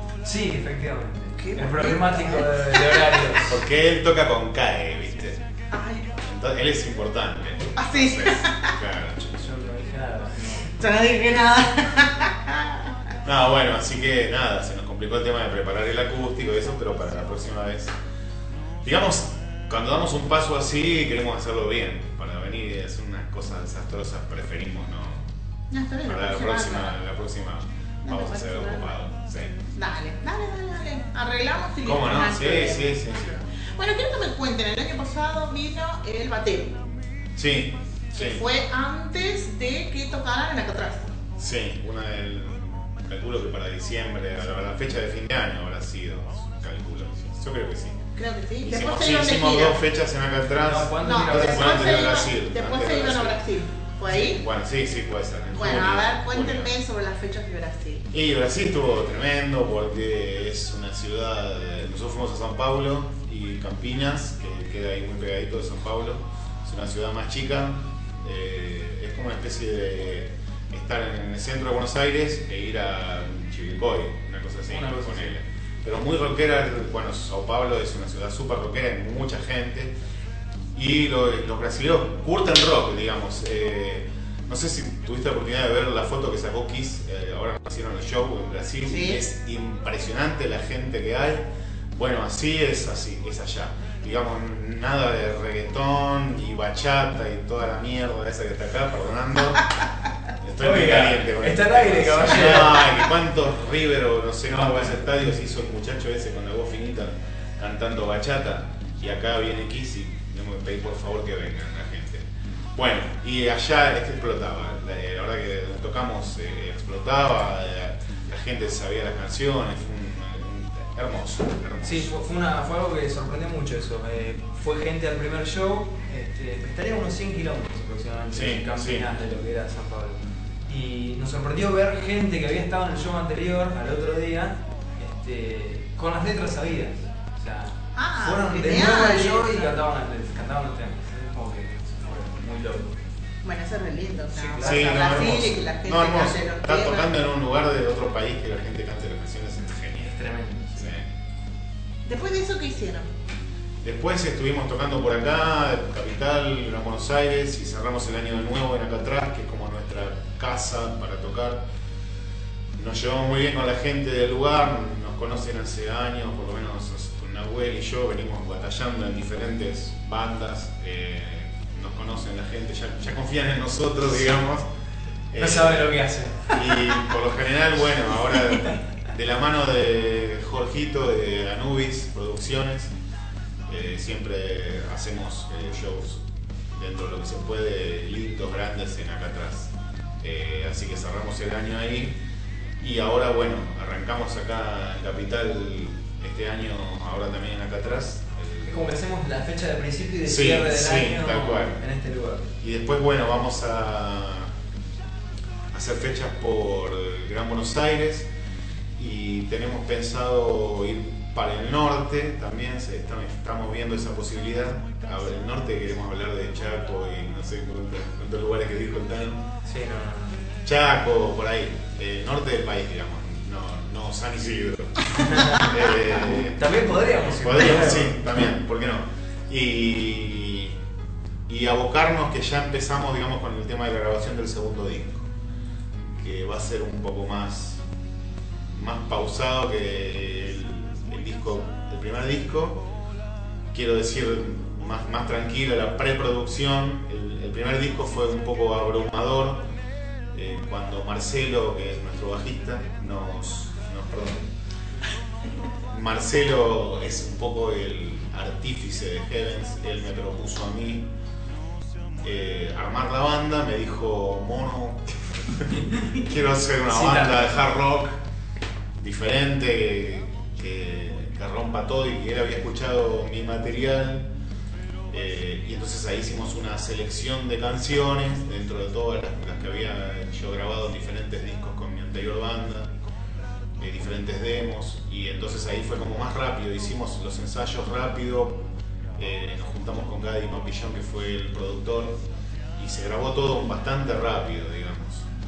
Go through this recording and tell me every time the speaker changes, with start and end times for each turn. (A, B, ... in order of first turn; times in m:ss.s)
0:00.2-0:03.6 A
0:01.4-0:03.4 B
0:03.5-0:05.4 C
0:05.7-0:06.1 B
0:06.2-0:09.3 C
0:07.8-0:08.7 B
0:09.3-0:10.7 A
0:10.8-0:12.9 B
0:13.2-0:17.9 C
0:18.8-0:25.3 C
0:25.7-0:27.0 B
0:26.0-0:29.7 C
0:28.0-0:29.0 B
0:29.7-0:36.8 B
0:31.8-0:33.3 C
0:37.4-0:38.4 C
0:38.1-0:41.1 B
0:41.4-0:48.0 C
0:48.2-0:49.8 B
0:48.6-0:53.4 C
0:50.6-0:52.0 A
0:51.0-0:54.4 B
0:54.1-0:56.7 C
0:55.5-0:58.1 B
0:58.1-1:19.9 C
1:14.7-1:15.4 A
1:20.7-1:39.6 C
1:28.9-1:29.2 B
1:40.4-2:02.1 C
1:40.6-1:42.9 A
1:44.5-1:45.0 A
2:01.8-2:23.0 A
2:08.3-2:09.0 C
2:17.9-2:19.7 B
2:23.4-2:27.1 B
2:24.3-2:25.2 A
2:24.6-2:30.2 C
2:30.0-2:30.9 A
2:30.8-2:31.1 C
2:32.0-2:33.1 B
2:33.8-2:41.6 C
2:42.8-2:54.7 C
2:55.3-3:02.9 C
2:55.4-2:56.6 A
3:03.7-3:12.2 C
3:12.8-3:19.0 C
3:18.6-3:22.5 A
3:20.2-3:21.8 C
3:22.6-3:24.5 C
3:25.7-3:28.3 C
3:29.0-3:39.4 C
3:39.6-3:40.5 A
3:40.6-3:50.8 C
3:45.1-3:48.2 A
3:51.5-3:55.3 C
3:56.1-3:57.8 C
3:58.6-4:02.8 C
4:03.7-4:09.6 C
4:10.3-4:14.5 C
4:15.9-4:21.1 C
4:22.2-4:28.2 C
4:25.8-4:26.1 A
4:26.8-4:27.6 A
4:29.0-4:34.3 C
4:35.1-4:42.9 C
4:43.8-4:48.6 C
4:49.2-4:52.2 C
4:52.8-4:55.3 C